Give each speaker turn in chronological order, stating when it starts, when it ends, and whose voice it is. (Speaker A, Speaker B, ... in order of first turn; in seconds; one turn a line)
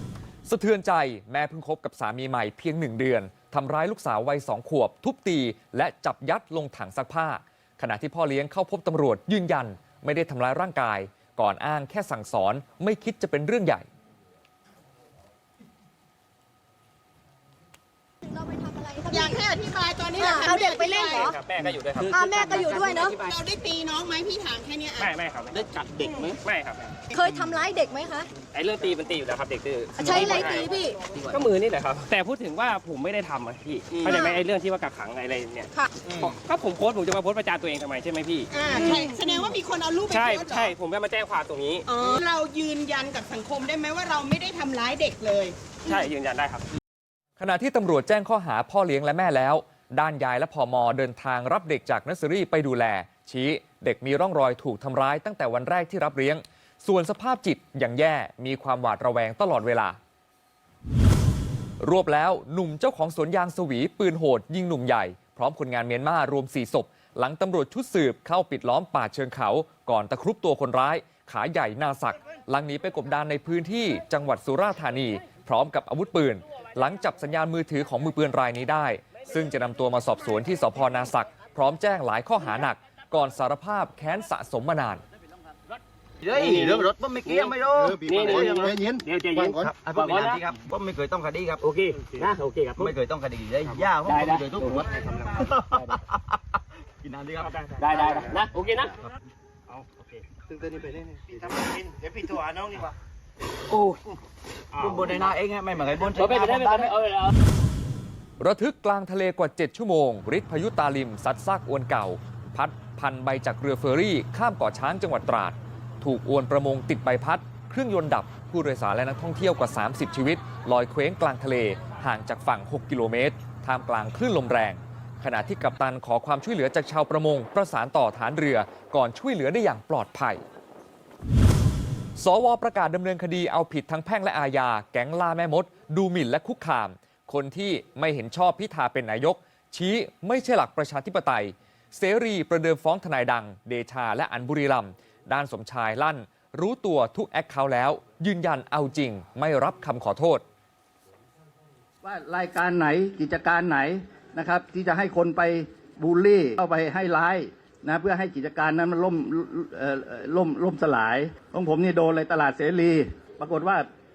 Speaker A: 0.5-13.9
Speaker B: 18.4-21.4
Speaker C: 19.1-21.2
Speaker D: 21.2-23.3
Speaker B: 22.0-23.7
Speaker C: 23.3-25.1
Speaker B: 24.7-25.1
Speaker D: 25.0-26.9
Speaker B: 26.0-26.3
Speaker B: 27.1-28.3
Speaker D: 28.5-30.7
Speaker B: 30.0-31.0
Speaker D: 31.3-38.5
Speaker B: 33.9-34.4
Speaker B: 38.6-40.7
Speaker C: 38.6-40.7
Speaker D: 40.1-41.9
Speaker B: 41.9-42.3
Speaker C: 41.9-45.5
Speaker D: 45.9-46.6
Speaker A: 47.4-60.0
Speaker A: 61.8-85.0
Speaker E: 86.2-88.6
Speaker D: 86.5-87.4
Speaker D: 88.1-90.4
Speaker E: 89.6-91.6
Speaker D: 91.6-92.9
Speaker E: 93.0-95.0
Speaker D: 94.1-95.3
Speaker E: 97.0-97.5
Speaker D: 97.5-98.9
Speaker E: 104.9-106.9
Speaker B: 106.3-106.8
Speaker A: 108.4-130.4
Speaker A: 132.2-150.4
Speaker F: 152.0-163.9